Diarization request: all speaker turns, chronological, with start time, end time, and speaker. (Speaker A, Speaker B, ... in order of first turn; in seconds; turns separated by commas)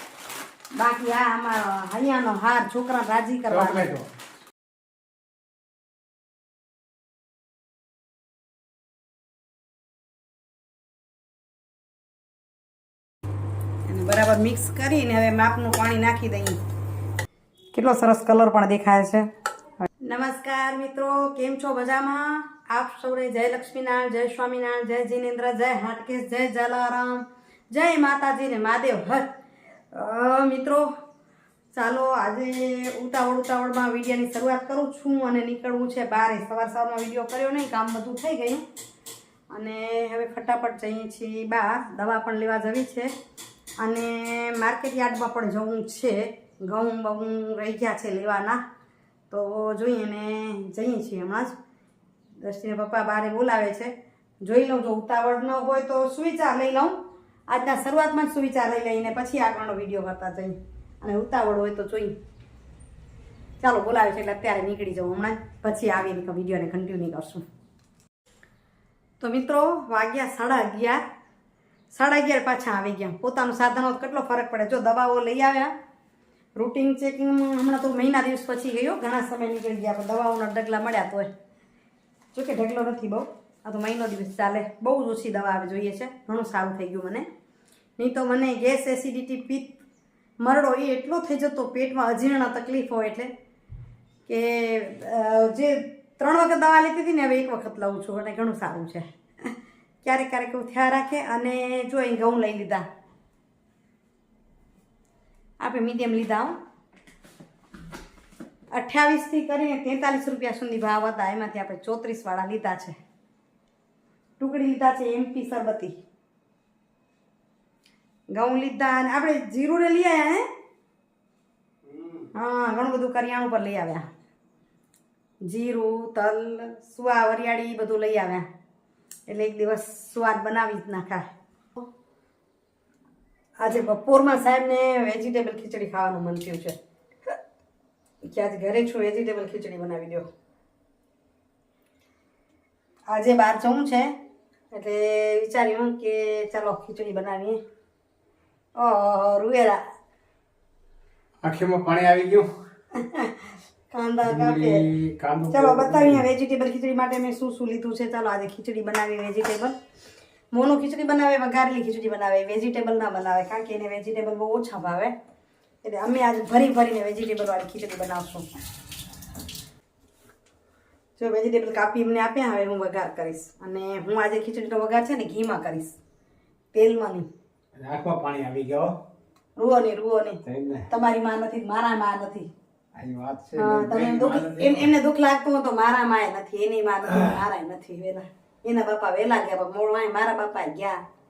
Speaker A: 0.8-3.9, Speaker B: 3.5-4.1, Speaker A: 13.9-16.6, Speaker A: 17.7-19.3, Speaker A: 20.0-29.3, Speaker A: 29.9-30.9, Speaker A: 31.7-38.6, Speaker A: 39.5-43.1, Speaker A: 43.8-48.6, Speaker A: 49.3-51.6, Speaker A: 52.4-57.0, Speaker A: 57.5-62.2, Speaker A: 63.6-67.4, Speaker A: 69.2-71.0, Speaker A: 71.9-75.7, Speaker A: 76.6-81.3, Speaker A: 82.3-87.3, Speaker A: 88.0-89.8, Speaker A: 90.4-93.3, Speaker A: 94.3-99.5, Speaker A: 100.0-102.8, Speaker A: 105.6-106.6, Speaker A: 108.7-113.0, Speaker A: 114.4-115.9, Speaker A: 118.3-120.5, Speaker B: 121.9-122.3, Speaker A: 122.3-124.0, Speaker A: 125.5-128.5, Speaker A: 129.3-131.8, Speaker A: 133.6-136.8, Speaker A: 138.3-140.3, Speaker A: 143.1-144.1, Speaker A: 144.7-147.6, Speaker A: 148.8-149.8, Speaker B: 151.4-152.5, Speaker A: 152.9-154.9, Speaker B: 154.2-156.3, Speaker A: 155.5-159.8, Speaker A: 160.5-165.1, Speaker A: 165.8-168.5, Speaker A: 171.2-176.0, Speaker A: 176.7-177.3, Speaker B: 177.8-178.9, Speaker A: 179.6-182.5, Speaker B: 180.4-180.9, Speaker B: 182.9-184.9, Speaker A: 183.6-191.0